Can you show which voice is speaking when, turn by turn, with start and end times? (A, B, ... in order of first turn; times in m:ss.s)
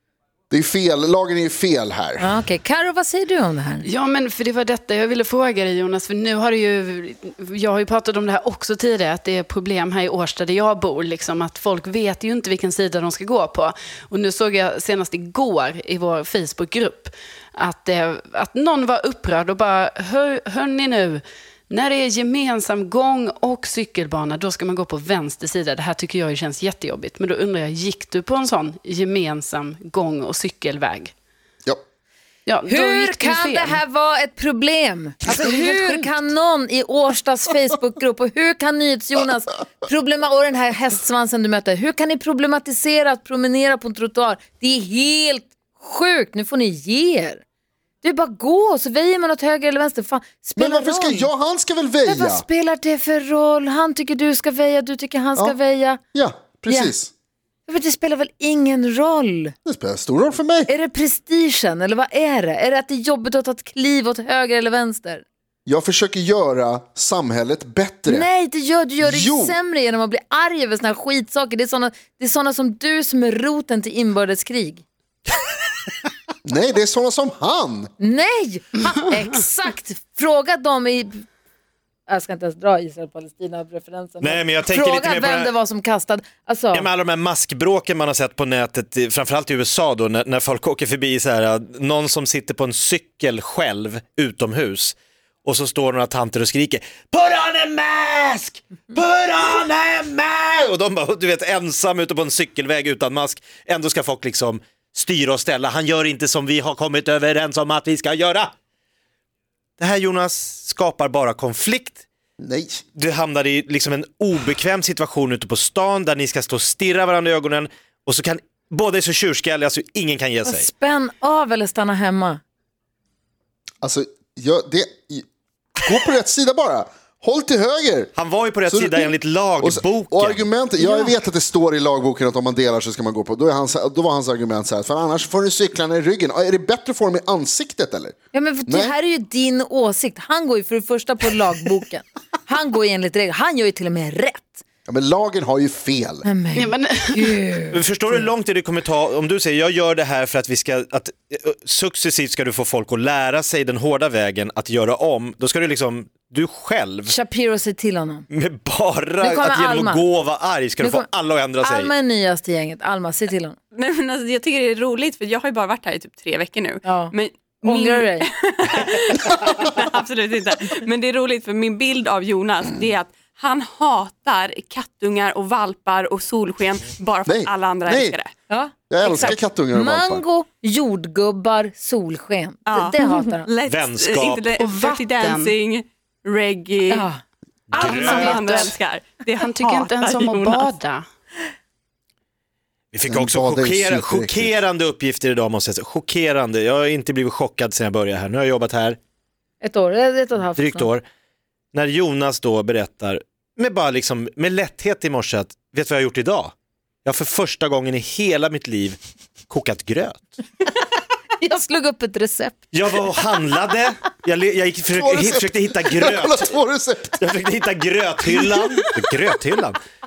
0:00.5-0:02.3 A
0:02.2-0:03.8 B
0:03.8-0:31.1 C
0:32.4-0:33.8 C
0:32.7-0:47.4 B
0:35.3-0:36.1 C
0:48.0-0:51.3 B
0:50.6-0:52.4 A
0:52.0-0:56.0 B
0:56.1-0:57.1 A
0:56.7-0:56.9 B
0:57.7-0:59.5 B
0:59.6-1:00.7 A
1:00.7-1:05.2 B
1:05.6-1:08.3 A
1:08.1-1:14.8 B
1:09.0-1:09.6 A
1:16.4-1:17.9 A
1:18.0-1:21.2 B
1:22.1-1:26.9 B
1:24.2-1:25.5 D
1:26.7-1:48.5 D
1:49.8-1:52.0 D
1:52.4-1:52.8 A
1:52.9-2:00.7 D
2:00.4-2:02.4 B
2:03.8-2:05.2 A
2:05.8-2:08.1 A
2:08.2-2:10.5 D
2:08.6-2:18.1 A
2:10.8-2:11.1 B
2:18.3-2:24.6 B
2:18.7-2:18.9 A
2:24.9-2:26.3 A
2:26.2-2:28.2 B
2:26.6-2:27.4 C
2:27.7-2:37.1 D
2:37.1-2:38.2 B
2:38.3-2:41.9 D
2:39.2-2:40.0 B
2:40.8-2:41.1 B
2:41.6-2:43.6 B
2:43.7-2:58.3 E
2:46.8-2:47.1 B
2:47.6-2:48.3 B
2:57.2-2:58.2 A
2:58.5-3:03.5 B
2:58.9-3:00.2 A
3:02.7-3:07.1 E
3:03.7-3:04.6 D
3:04.6-3:05.6 C
3:06.9-3:07.2 B
3:07.7-3:08.3 D
3:07.7-3:10.8 E
3:07.7-3:08.8 C
3:07.8-3:08.3 B
3:09.3-3:11.0 C
3:12.9-3:19.0 D
3:13.1-3:14.6 A
3:19.6-3:20.9 B
3:20.6-3:21.0 D
3:21.7-3:26.5 D
3:27.0-3:29.0 D
3:29.5-3:30.3 D
3:31.4-3:32.6 B
3:32.7-3:36.5 D
3:34.9-3:37.2 A
3:37.2-3:39.8 D